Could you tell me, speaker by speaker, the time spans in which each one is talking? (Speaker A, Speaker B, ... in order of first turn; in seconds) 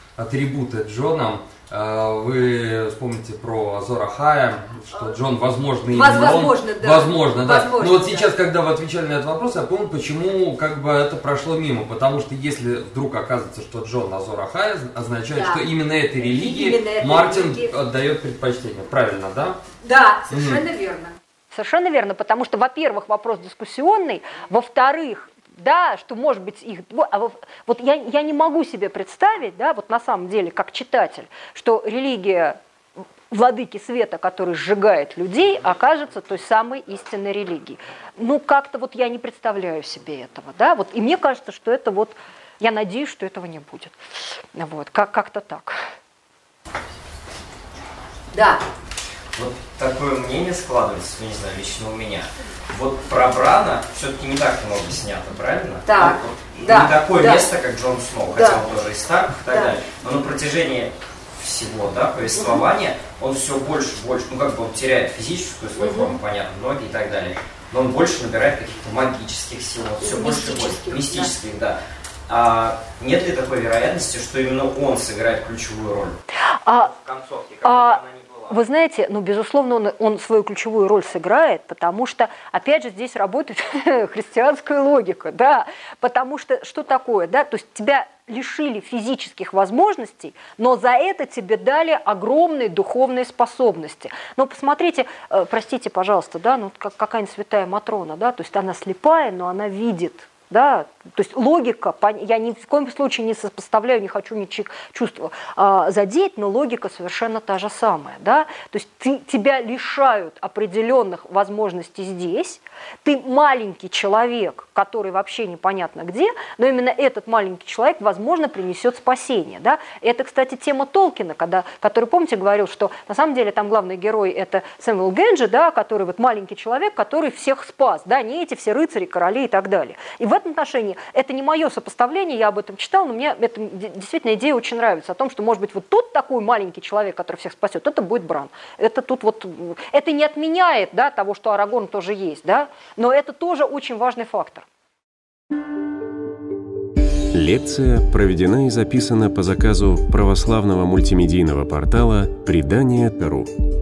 Speaker A: 0.2-19.6, 20.3-20.6
Speaker B: 5.9-8.3, 15.3-17.7, 19.8-32.6, 33.3-44.0, 44.5-45.8, 48.3-48.6, 55.9-57.5, 58.4-58.6, 59.5-59.8, 62.4-62.6, 65.8-66.2, 70.0-71.3, 76.7-76.9, 77.6-144.7
Speaker C: 49.4-76.2, 76.9-78.5
Speaker D: 147.3-153.5